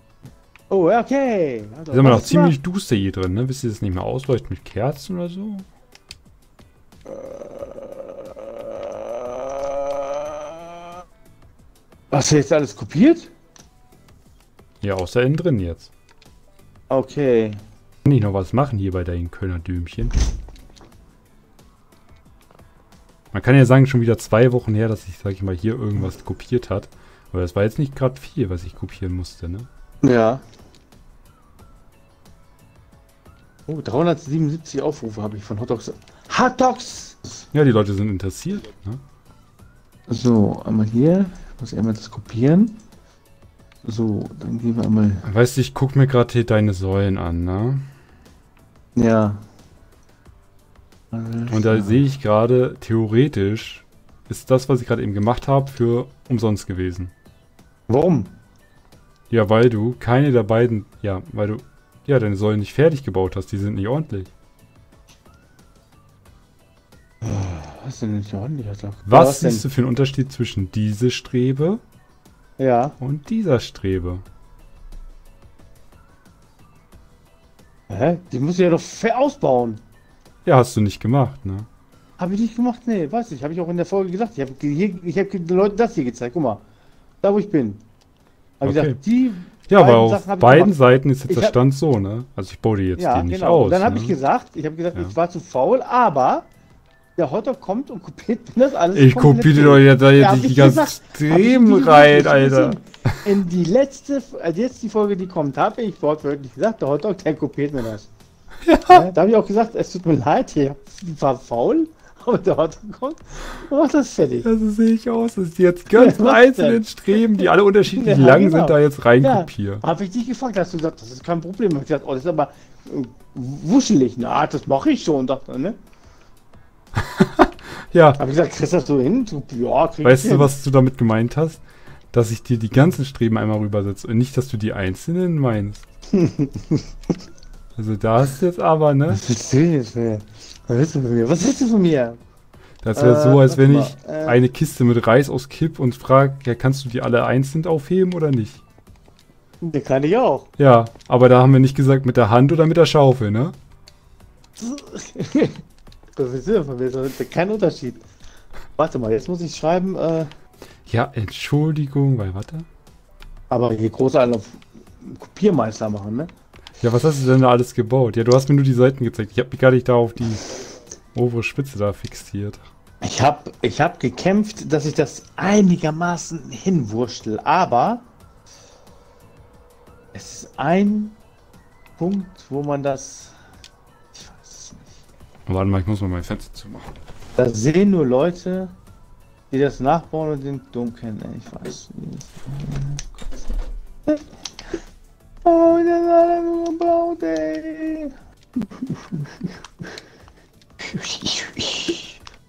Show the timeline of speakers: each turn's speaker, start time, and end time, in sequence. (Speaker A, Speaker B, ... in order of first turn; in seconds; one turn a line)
Speaker A: 0.7-2.6
Speaker B: 1.9-5.7
Speaker A: 7.0-10.6
Speaker A: 12.1-13.3
Speaker B: 14.8-15.9
Speaker A: 16.9-17.6
Speaker B: 18.0-20.1
Speaker B: 23.3-29.7
Speaker A: 30.0-30.4
Speaker A: 33.7-37.2
Speaker B: 37.5-39.0
Speaker A: 40.1-42.8
Speaker A: 43.8-45.2
Speaker B: 45.2-47.9
Speaker A: 49.0-49.4
Speaker A: 51.1-52.0
Speaker B: 51.5-57.1
Speaker A: 57.9-58.3
Speaker B: 59.3-64.3
Speaker A: 67.2-69.7
Speaker B: 69.0-71.8
Speaker A: 72.6-73.0
Speaker B: 73.0-74.2
Speaker A: 77.9-79.8
Speaker B: 80.4-81.7
Speaker A: 82.2-86.6
Speaker A: 87.2-87.8
Speaker A: 88.6-91.5
Speaker B: 88.6-89.0
Speaker B: 89.7-94.1
Speaker A: 93.0-96.5
Speaker A: 97.2-108.1
Speaker B: 98.9-103.2
Speaker B: 108.7-109.1
Speaker A: 108.9-114.5
Speaker B: 114.4-119.8
Speaker A: 115.9-125.8
Speaker B: 127.0-128.2
Speaker A: 128.2-130.5
Speaker B: 130.0-131.6
Speaker B: 132.1-135.8
Speaker A: 136.1-136.8
Speaker B: 137.8-139.2
Speaker A: 139.1-142.2
Speaker B: 142.8-148.6
Speaker A: 142.9-144.4
Speaker A: 149.6-150.5
Speaker B: 150.6-153.5
Speaker A: 154.6-155.6
Speaker A: 156.2-158.0
Speaker A: 158.8-160.3
Speaker B: 160.9-162.7
Speaker A: 163.5-166.3
Speaker B: 166.8-170.5
Speaker B: 171.1-172.6
Speaker A: 173.0-178.0
Speaker A: 180.1-181.2
Speaker A: 182.0-183.3
Speaker A: 184.1-184.8
Speaker B: 185.5-186.9
Speaker A: 187.4-188.7
Speaker A: 189.5-193.5
Speaker A: 195.4-199.5
Speaker A: 200.8-202.2